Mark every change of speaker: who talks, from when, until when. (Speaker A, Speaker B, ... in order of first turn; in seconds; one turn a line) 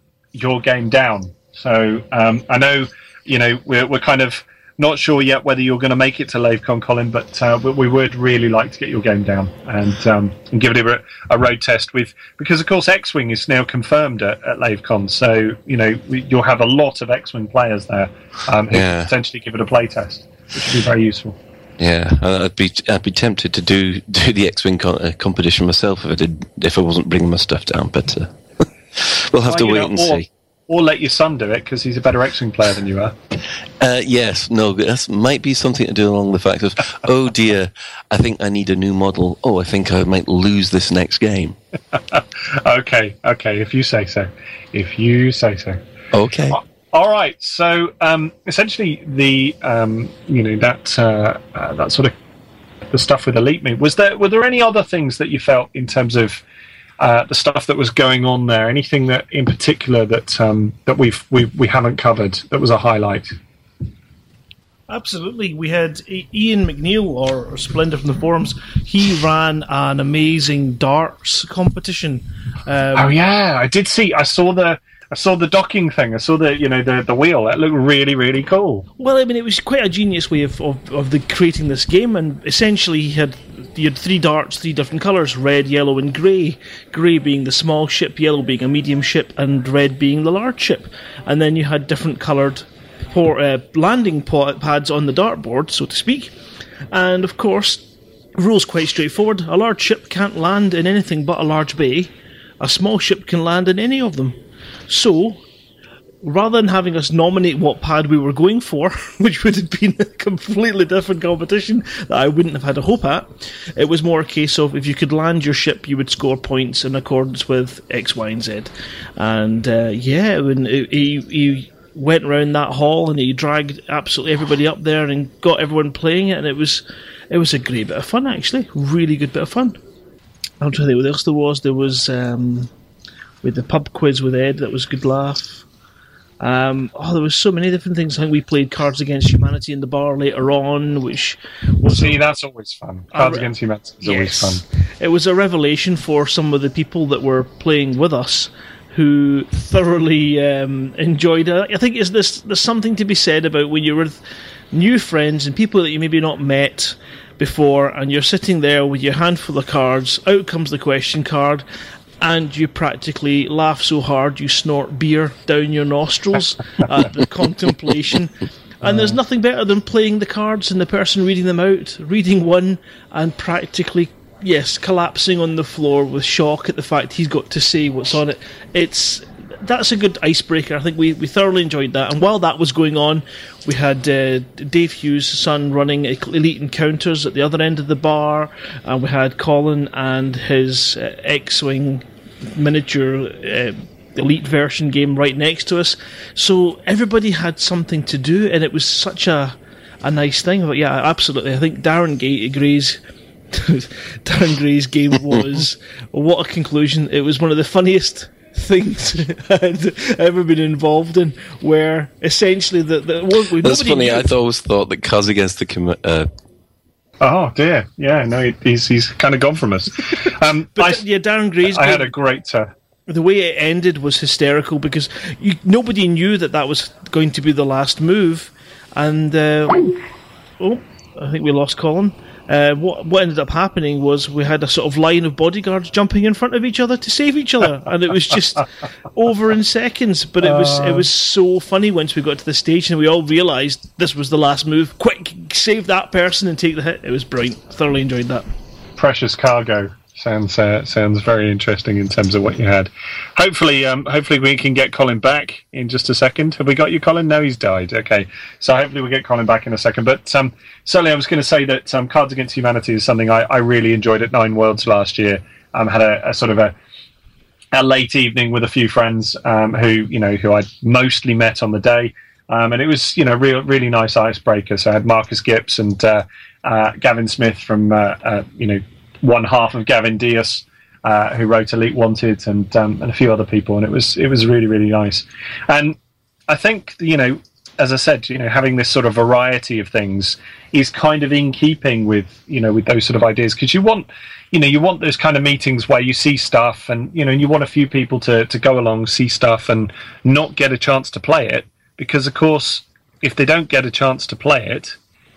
Speaker A: 0.3-21.4
Speaker B: 18.7-19.1
Speaker B: 21.8-28.3
Speaker B: 28.9-30.3
Speaker A: 29.4-33.1
Speaker B: 33.8-41.6
Speaker A: 42.1-45.8
Speaker B: 46.1-46.6
Speaker A: 46.5-52.1
Speaker A: 52.9-56.4
Speaker A: 57.0-63.3
Speaker C: 64.9-73.1
Speaker A: 72.9-78.9
Speaker C: 79.0-96.3
Speaker C: 96.9-104.4
Speaker C: 104.9-105.4
Speaker C: 106.2-129.8
Speaker C: 130.6-132.7
Speaker C: 133.4-135.6
Speaker C: 136.4-142.2
Speaker A: 141.9-144.6
Speaker C: 143.1-143.5
Speaker C: 144.0-154.2
Speaker C: 154.7-161.6
Speaker C: 162.2-203.0
Speaker A: 168.8-169.1
Speaker C: 203.5-214.3
Speaker B: 213.6-216.3
Speaker A: 217.2-221.0
Speaker C: 220.8-222.1
Speaker A: 221.6-222.7
Speaker C: 223.1-230.0
Speaker C: 230.6-248.4
Speaker A: 240.4-241.1
Speaker A: 249.0-266.7
Speaker A: 267.7-285.9
Speaker A: 286.5-304.9